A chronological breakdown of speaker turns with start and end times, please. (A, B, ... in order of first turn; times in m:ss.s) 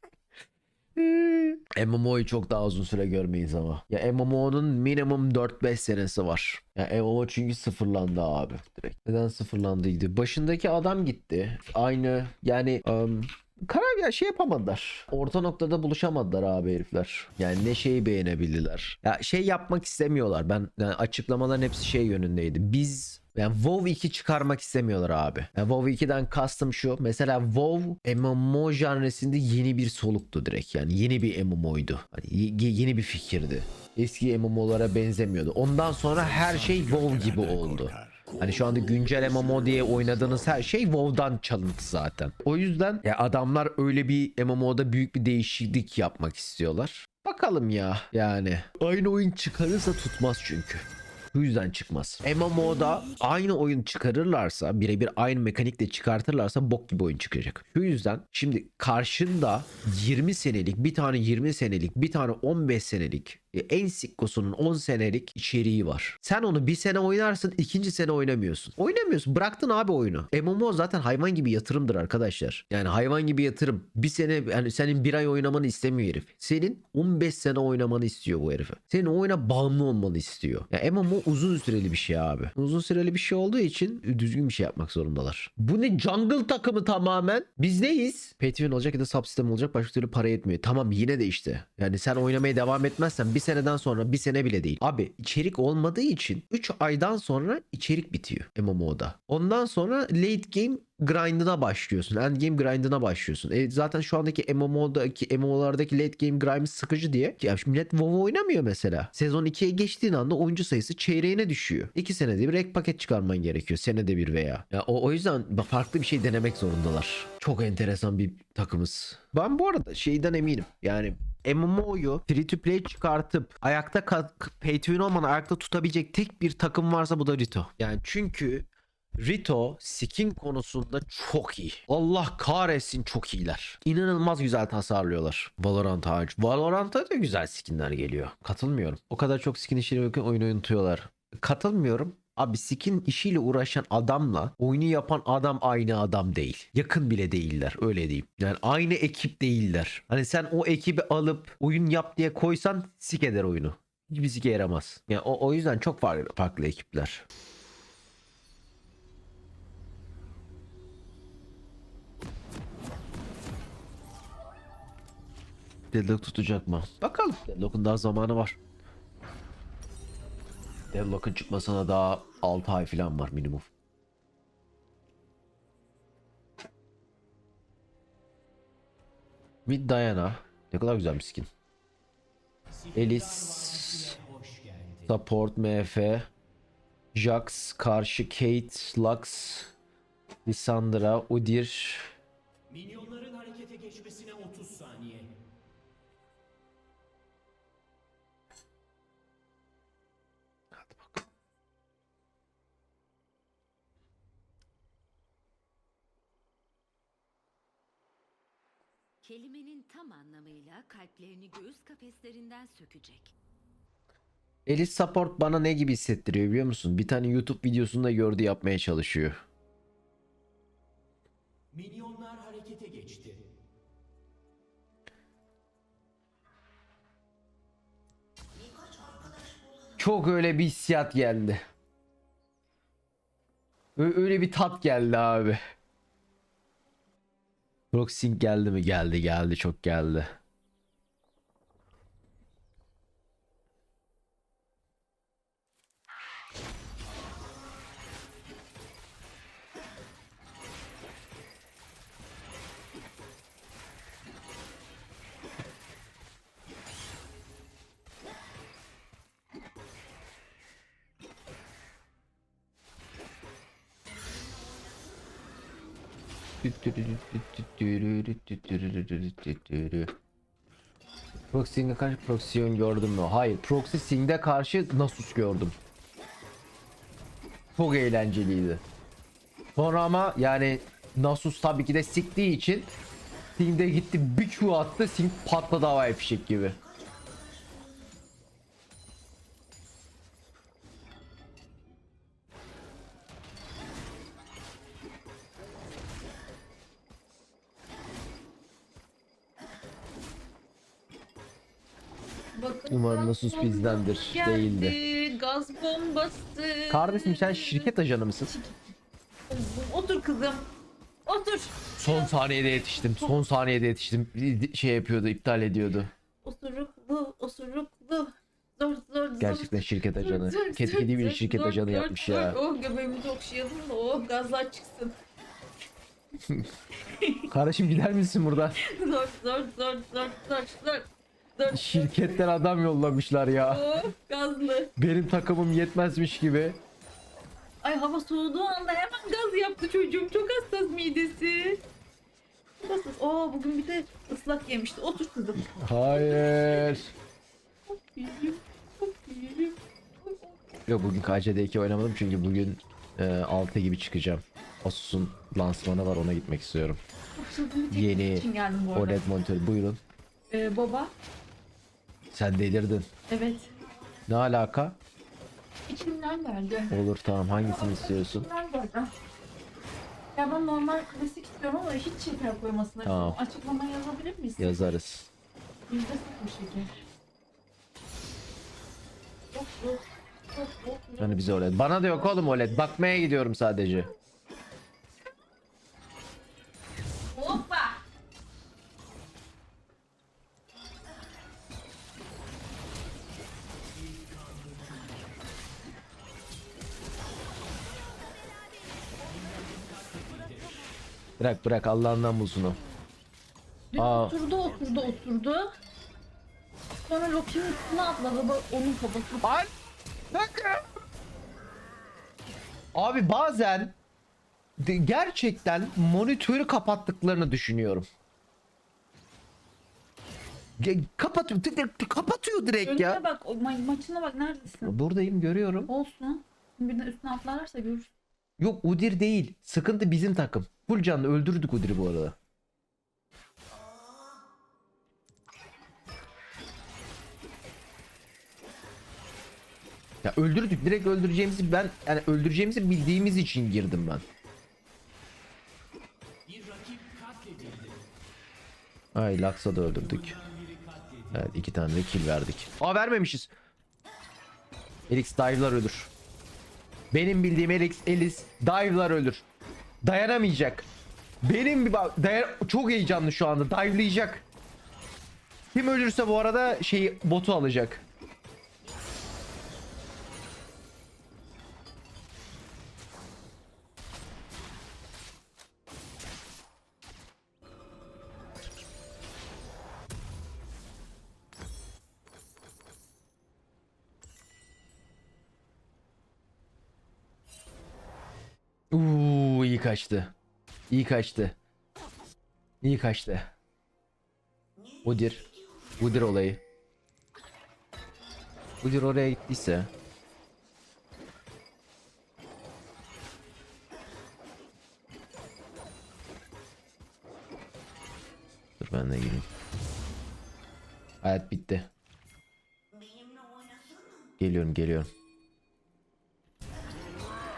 0:01.0-2:08.7 A
2:09.2-2:37.2 A
2:45.9-2:48.6 A
2:50.9-2:53.7 A
2:59.7-3:01.5 A
3:02.7-3:05.2 B
3:02.9-3:04.2 A
3:05.1-3:06.3 A
3:07.1-3:09.7 A
3:10.5-3:12.1 A
3:12.7-3:15.4 B
3:20.7-3:21.2 A
3:29.2-3:33.3 C
3:34.7-3:39.4 A
3:41.7-3:43.6 B
3:50.0-3:51.6 A
3:54.0-3:55.6 A
3:57.9-4:00.3 A
4:26.6-4:30.1 A
4:31.5-4:35.8 A
4:37.8-4:38.8 A
4:39.8-4:42.9 A
4:43.6-4:46.8 A
5:02.6-5:07.9 D
5:02.9-5:05.0 A
5:06.9-5:08.5 A
5:08.5-5:09.0 D
5:09.5-5:10.7 D
5:11.3-5:13.4 D
5:12.0-5:16.1 A
5:16.4-5:25.2 D
5:19.4-5:22.6 A
5:27.2-5:27.5 D
5:27.5-5:28.8 A
5:28.8-5:32.5 D
5:31.7-5:33.9 A
5:33.6-5:34.9 D
5:35.0-5:36.8 A
5:37.8-5:41.8 D
5:42.8-5:47.0 D
5:45.8-5:47.1 A
5:47.9-5:50.6 D
5:50.9-5:57.0 A
5:57.4-5:59.3 D
5:57.9-6:00.0 A
6:00.5-6:01.1 D
6:02.3-6:03.1 A
6:03.3-6:03.7 D
6:04.3-6:05.0 A
6:05.9-6:07.0 D
6:06.9-6:08.5 A
6:07.5-6:09.1 D
6:10.4-6:14.9 D
6:13.0-6:13.4 A
6:14.6-6:15.3 A
6:15.9-6:17.0 D
6:19.5-6:22.9 D
6:21.2-6:24.1 A
6:27.3-6:28.0 D
6:33.9-6:35.5 B
6:39.2-6:40.9 B
6:41.4-6:42.8 A
6:43.9-6:45.7 D
6:44.0-6:44.4 A
6:47.0-6:49.5 D
6:49.4-6:49.7 A
6:50.3-6:50.8 A
6:53.0-6:54.0 A
6:54.8-6:58.1 A
7:00.8-7:03.2 A
7:02.8-7:04.9 D
7:04.8-7:05.9 A
7:05.9-7:08.1 D
7:08.6-7:12.4 A
7:20.2-7:24.2 A
7:26.5-7:28.1 B
7:29.2-7:30.4 A
7:29.9-7:31.5 B
7:31.3-7:33.5 A
7:35.1-7:36.1 A
7:37.1-7:39.4 A
7:40.0-7:40.9 A
7:41.4-7:44.5 A
7:45.7-7:48.0 A
8:08.9-8:10.3 A
8:10.9-8:11.6 A
8:12.8-8:13.5 A
8:15.0-8:15.5 A
8:16.0-8:16.6 A
8:18.8-8:19.9 A
8:28.8-8:29.5 A
8:31.2-8:31.9 A
8:34.4-8:35.1 A